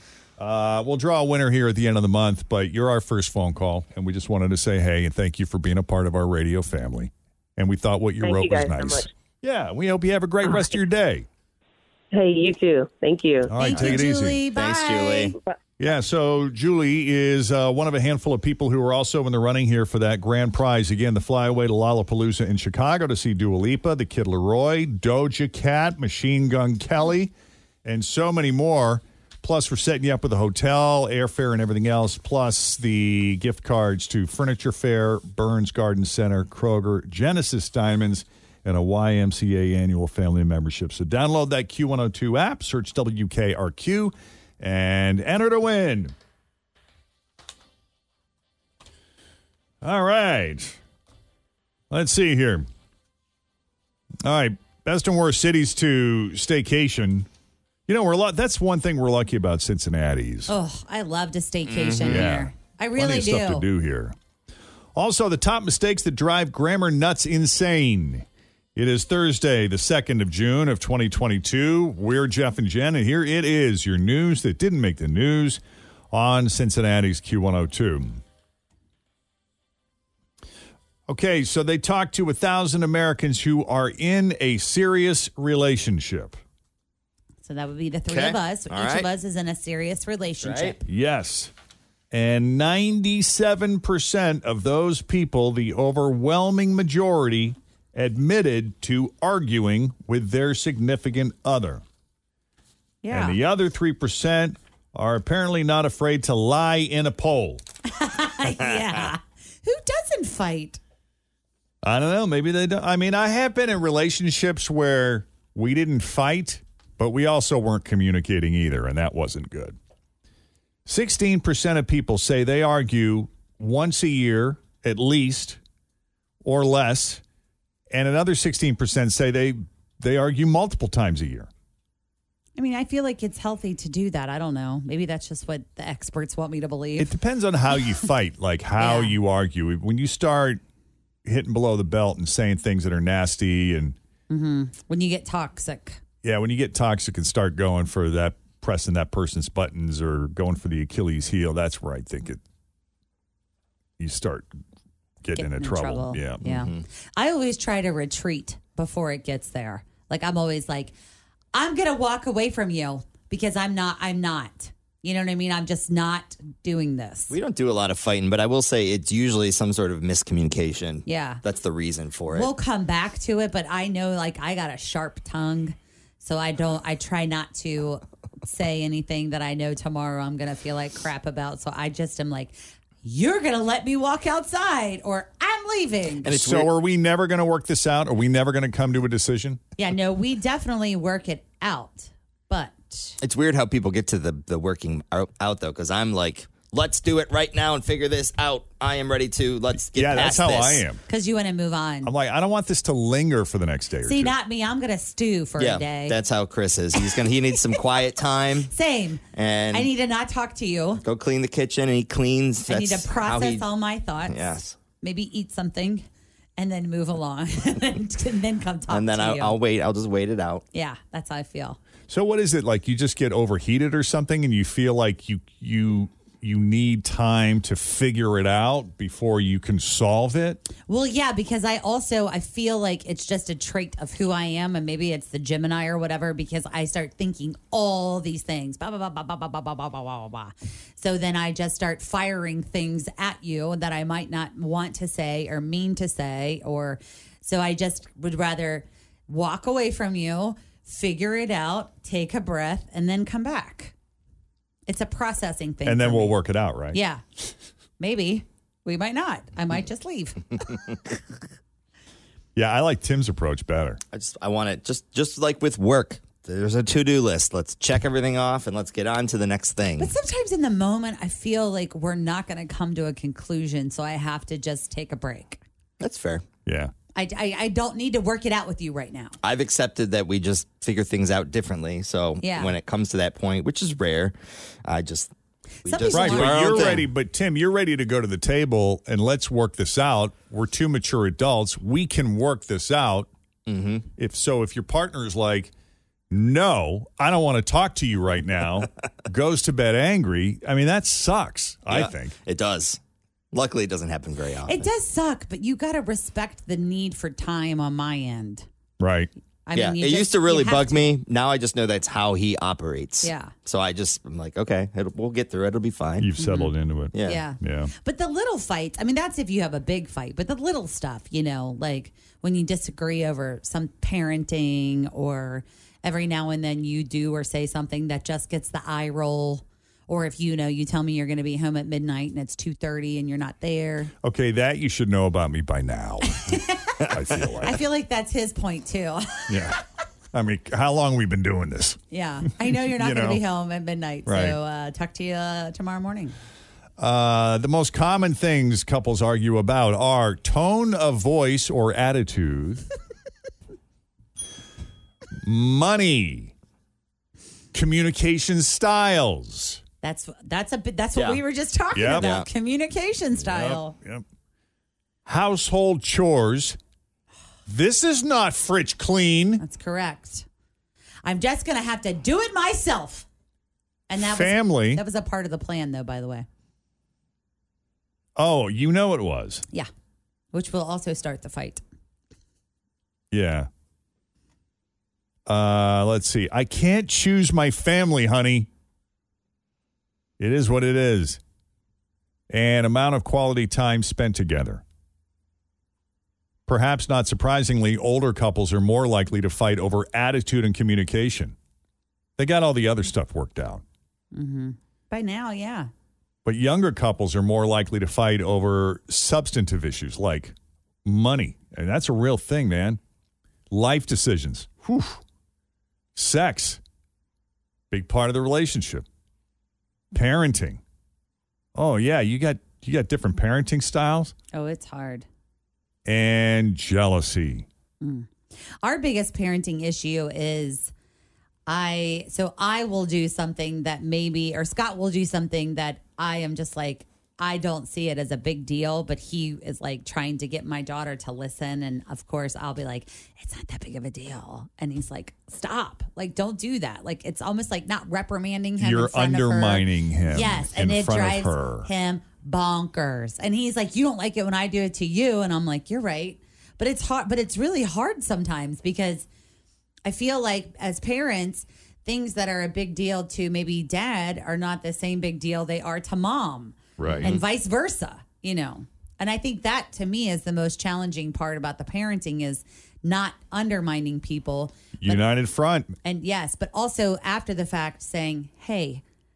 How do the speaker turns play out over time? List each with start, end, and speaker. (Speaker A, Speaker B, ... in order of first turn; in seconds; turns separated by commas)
Speaker A: 0.4-11.3, Speaker B: 8.2-9.1, Speaker B: 10.5-10.7, Speaker B: 12.1-13.5, Speaker A: 13.4-14.4, Speaker C: 13.6-15.3, Speaker D: 13.8-15.4, Speaker A: 15.8-27.3, Speaker A: 27.8-46.1, Speaker A: 49.8-50.8, Speaker A: 51.9-52.7, Speaker A: 54.2-57.3, Speaker A: 57.9-60.5, Speaker C: 60.5-63.7, Speaker D: 61.7-62.3, Speaker A: 62.1-64.2, Speaker A: 65.0-78.2, Speaker A: 81.1-86.4, Speaker C: 87.4-90.8, Speaker D: 88.1-89.1, Speaker D: 90.4-90.8, Speaker A: 90.9-91.5, Speaker A: 92.1-101.8, Speaker C: 103.0-103.4, Speaker A: 103.1-107.6, Speaker C: 107.9-110.8, Speaker A: 111.8-119.8, Speaker A: 120.9-125.6, Speaker A: 126.4-127.2, Speaker A: 127.9-131.5, Speaker C: 132.6-137.1, Speaker A: 137.0-140.6, Speaker C: 138.8-139.2, Speaker A: 141.2-144.0, Speaker C: 144.3-146.0, Speaker A: 146.2-152.4, Speaker A: 154.0-154.5, Speaker A: 155.2-156.4, Speaker C: 155.3-160.9, Speaker D: 156.4-156.8, Speaker C: 161.5-167.4, Speaker D: 167.3-172.5, Speaker C: 171.1-171.4, Speaker C: 172.3-186.3, Speaker D: 186.2-186.7, Speaker A: 186.3-189.6, Speaker C: 189.8-193.2, Speaker D: 193.2-200.8, Speaker A: 199.7-201.0, Speaker C: 201.1-202.1, Speaker A: 202.0-204.3, Speaker C: 204.0-206.2, Speaker D: 205.6-208.7, Speaker C: 208.7-211.0, Speaker D: 209.3-209.9, Speaker D: 211.0-213.7, Speaker C: 212.7-216.1, Speaker D: 214.3-214.8, Speaker C: 216.6-219.6, Speaker D: 218.9-220.7, Speaker C: 220.7-221.8, Speaker A: 222.1-230.6, Speaker C: 230.9-253.9, Speaker C: 254.9-256.4, Speaker A: 255.9-257.0, Speaker C: 256.9-257.2, Speaker C: 258.0-260.9, Speaker A: 262.6-264.0, Speaker D: 264.1-270.1, Speaker C: 270.0-275.6, Speaker D: 276.0-276.4, Speaker A: 276.7-276.9, Speaker C: 277.1-279.4, Speaker D: 279.4-285.3, Speaker C: 282.4-282.8, Speaker D: 285.9-287.1, Speaker C: 285.9-287.1, Speaker A: 286.1-293.3, Speaker D: 293.7-294.1, Speaker A: 294.2-295.7, Speaker A: 296.3-302.4, Speaker D: 301.9-303.0, Speaker D: 303.5-304.9, Speaker C: 304.7-308.7, Speaker A: 309.0-309.3, Speaker C: 309.7-311.2, Speaker D: 309.7-316.3, Speaker C: 313.2-313.5, Speaker A: 316.2-317.9, Speaker C: 316.4-316.7, Speaker D: 317.1-317.4, Speaker C: 317.2-334.1, Speaker A: 334.2-337.8, Speaker C: 336.3-339.8, Speaker A: 339.5-339.8, Speaker A: 340.3-343.4, Speaker C: 342.1-346.4, Speaker A: 344.3-344.6, Speaker A: 347.0-352.9, Speaker A: 355.4-356.5, Speaker A: 357.7-359.8, Speaker C: 360.0-363.9, Speaker D: 361.1-361.4, Speaker A: 361.9-362.3, Speaker D: 362.1-362.5, Speaker A: 363.4-364.2, Speaker A: 365.3-366.8, Speaker A: 367.7-369.6, Speaker C: 369.6-370.5, Speaker C: 371.2-373.3, Speaker C: 374.1-376.5, Speaker A: 374.2-375.0, Speaker A: 378.4-379.6, Speaker C: 380.5-381.8, Speaker A: 383.3-383.7, Speaker A: 385.5-388.7, Speaker A: 390.4-391.4, Speaker A: 392.5-394.8, Speaker A: 396.7-401.6, Speaker A: 402.4-403.8, Speaker C: 404.3-405.9, Speaker A: 406.4-413.0, Speaker A: 413.7-415.2, Speaker A: 416.1-416.8, Speaker A: 417.9-419.1, Speaker A: 420.1-420.8, Speaker A: 421.8-424.4, Speaker C: 424.5-425.3, Speaker A: 426.1-427.7, Speaker C: 428.0-428.3, Speaker C: 428.8-430.9, Speaker C: 431.7-459.3, Speaker A: 448.8-451.9, Speaker C: 460.1-475.2, Speaker A: 467.0-467.3, Speaker D: 467.1-467.4, Speaker A: 475.0-476.0, Speaker C: 476.0-479.0